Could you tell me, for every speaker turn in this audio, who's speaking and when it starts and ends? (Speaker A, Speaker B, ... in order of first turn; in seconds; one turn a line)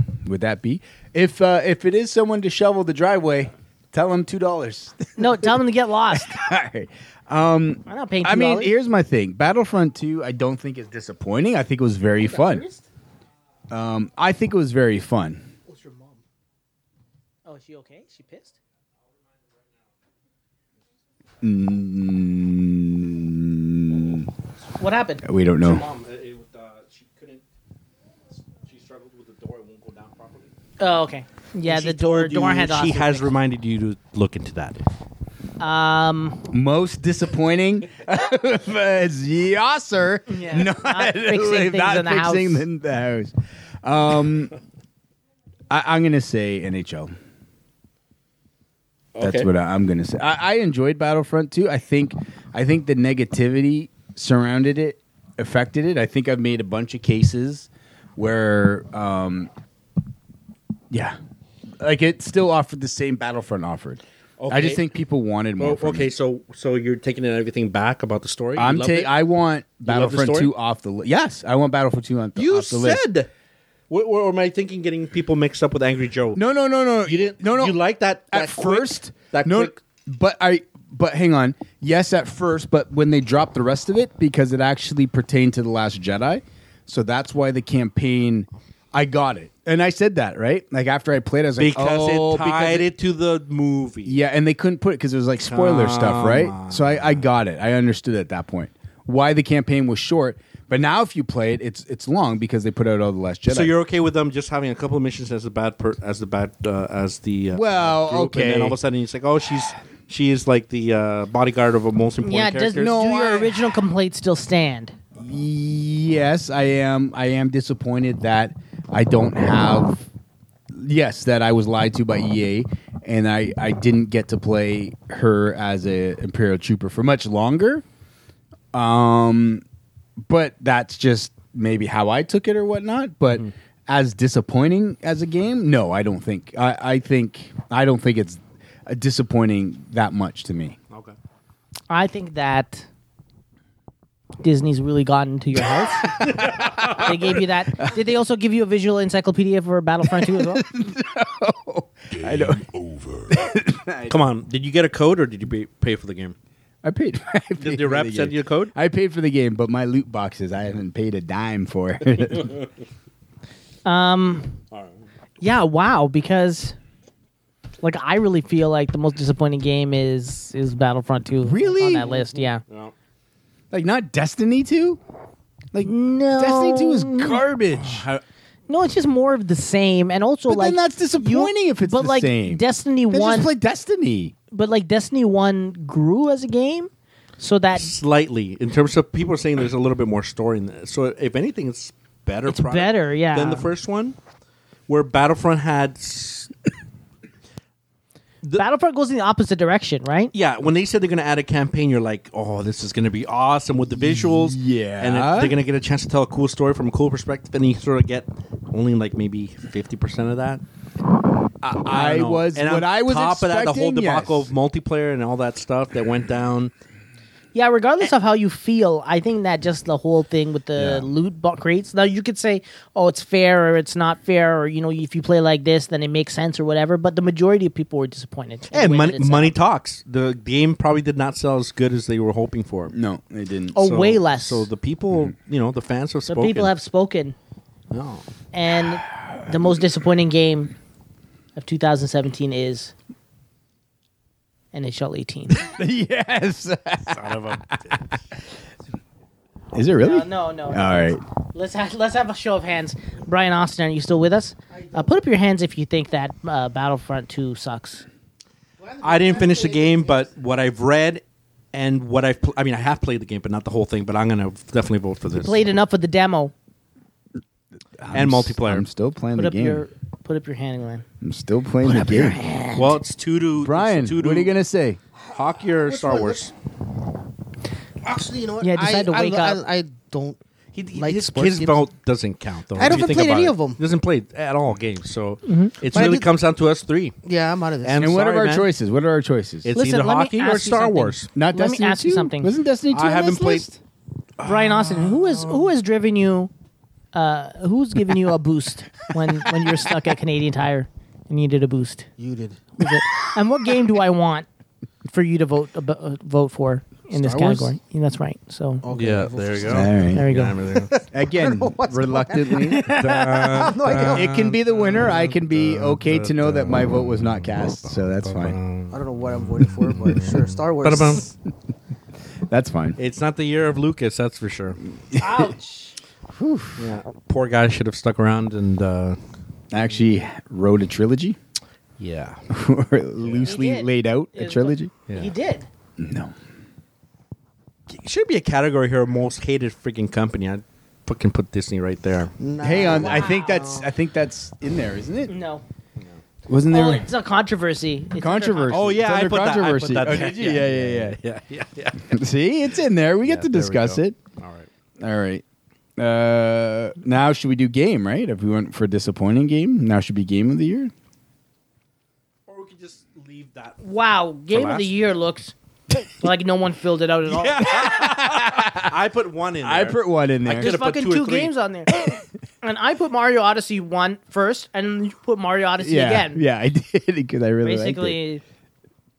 Speaker A: 0.2-12.7
Speaker B: 5.2-6.4
Speaker B: 7.9-8.7
Speaker C: 12.2-12.8
Speaker A: 13.7-15.5
Speaker C: 15.7-16.2
Speaker B: 17.5-18.6
Speaker A: 21.4-24.3
Speaker B: 24.8-25.2
Speaker A: 25.2-25.9
Speaker D: 25.6-27.4
Speaker D: 28.6-30.5
Speaker B: 30.8-33.3
Speaker D: 31.6-34.8
Speaker B: 35.6-36.4
Speaker A: 36.5-44.5
Speaker B: 40.3-42.6
Speaker A: 45.7-47.1
Speaker D: 49.1-49.5
Speaker A: 49.2-59.5
Speaker A: 60.9-61.2
Speaker A: 61.8-66.1
Speaker D: 64.4-64.8
Speaker D: 65.6-69.2
Speaker A: 68.6-73.0
Speaker D: 69.8-70.5
Speaker D: 72.4-73.3
Speaker D: 73.9-76.4
Speaker A: 76.3-77.8
Speaker D: 77.0-79.8
Speaker A: 78.3-92.9
Speaker D: 91.6-94.2
Speaker A: 94.0-103.7
Speaker D: 95.4-97.2
Speaker D: 103.5-113.0
Speaker A: 107.5-108.8
Speaker B: 112.2-115.0
Speaker A: 112.7-113.6
Speaker A: 115.2-120.1
Speaker A: 120.7-127.8
Speaker A: 128.7-129.6
Speaker A: 130.2-140.8
Speaker D: 140.9-141.2
Speaker B: 141.9-142.9
Speaker B: 144.4-146.3
Speaker D: 146.1-147.2
Speaker B: 146.8-150.7
Speaker A: 150.1-152.7
Speaker A: 153.3-154.2
Speaker D: 154.1-156.3
Speaker A: 156.8-162.6
Speaker D: 157.6-158.7
Speaker B: 163.8-164.5
Speaker B: 165.4-166.8
Speaker B: 167.8-172.6
Speaker A: 171.4-172.2
Speaker D: 172.6-172.9
Speaker A: 173.7-175.0
Speaker A: 175.7-178.1
Speaker B: 175.8-177.4
Speaker D: 177.8-178.2
Speaker B: 178.7-183.5
Speaker A: 180.5-184.3
Speaker B: 184.5-187.9
Speaker D: 187.8-194.2
Speaker B: 192.5-193.7
Speaker D: 194.9-196.5
Speaker B: 198.6-200.3
Speaker D: 200.3-210.6
Speaker A: 203.9-205.6
Speaker A: 211.6-214.5
Speaker D: 211.9-216.7
Speaker B: 217.5-229.6
Speaker A: 220.8-221.1
Speaker D: 228.7-233.0
Speaker A: 232.9-233.8
Speaker B: 233.8-234.7
Speaker D: 233.8-236.7
Speaker B: 236.3-237.4
Speaker D: 237.9-238.2
Speaker B: 238.5-240.7
Speaker B: 241.6-242.9
Speaker B: 244.7-245.6
Speaker A: 245.5-247.7
Speaker D: 247.1-248.2
Speaker A: 249.7-251.2
Speaker B: 250.0-258.1
Speaker C: 254.7-255.2
Speaker C: 258.8-260.3
Speaker D: 259.0-261.2
Speaker D: 261.7-265.6
Speaker B: 265.3-266.5
Speaker A: 268.0-269.8
Speaker D: 268.1-268.9
Speaker B: 269.4-271.1
Speaker A: 271.2-272.4
Speaker B: 271.8-273.0
Speaker D: 272.8-274.5
Speaker A: 273.6-275.0
Speaker D: 275.3-276.5
Speaker C: 275.9-276.4
Speaker C: 278.0-280.4
Speaker B: 278.6-279.6
Speaker D: 280.7-287.1
Speaker C: 280.9-281.8
Speaker C: 282.8-283.8
Speaker B: 285.5-285.8
Speaker C: 285.9-286.3
Speaker C: 287.2-288.1
Speaker D: 287.8-288.7
Speaker A: 288.0-289.7
Speaker D: 289.6-291.3
Speaker B: 289.7-292.5
Speaker A: 291.4-293.8
Speaker D: 292.9-293.7
Speaker B: 294.4-296.5
Speaker B: 297.1-302.1
Speaker C: 302.2-302.8
Speaker B: 302.8-304.5
Speaker B: 305.1-308.8
Speaker A: 307.2-307.7
Speaker C: 308.8-309.9
Speaker D: 308.9-310.9
Speaker A: 309.6-310.3
Speaker B: 310.1-310.6
Speaker C: 310.7-314.4
Speaker A: 311.1-313.0
Speaker D: 312.8-321.3
Speaker A: 313.9-318.6
Speaker C: 318.9-321.3
Speaker A: 322.5-323.0
Speaker D: 323.0-324.8
Speaker A: 325.1-325.5
Speaker B: 325.2-325.9
Speaker A: 326.3-326.9
Speaker D: 326.8-329.2
Speaker A: 329.7-331.4
Speaker D: 332.0-332.4
Speaker A: 332.5-334.9
Speaker D: 333.2-333.5
Speaker B: 333.4-335.7
Speaker A: 336.0-336.3
Speaker D: 337.9-342.3
Speaker C: 342.4-343.9
Speaker A: 342.6-345.3
Speaker B: 342.8-343.6
Speaker B: 345.3-345.6
Speaker A: 346.5-347.1
Speaker B: 346.7-348.8
Speaker A: 348.2-351.2
Speaker D: 348.7-352.2
Speaker A: 352.1-354.2
Speaker D: 353.2-354.7
Speaker A: 355.0-355.4
Speaker A: 356.0-360.9
Speaker D: 362.5-363.9
Speaker B: 363.8-365.5
Speaker D: 364.5-365.0
Speaker B: 366.2-367.8
Speaker D: 367.3-371.5
Speaker A: 367.8-368.9
Speaker A: 369.6-370.7
Speaker B: 370.5-371.9
Speaker A: 372.0-372.2
Speaker B: 372.6-376.4
Speaker A: 375.8-378.2
Speaker B: 377.6-378.4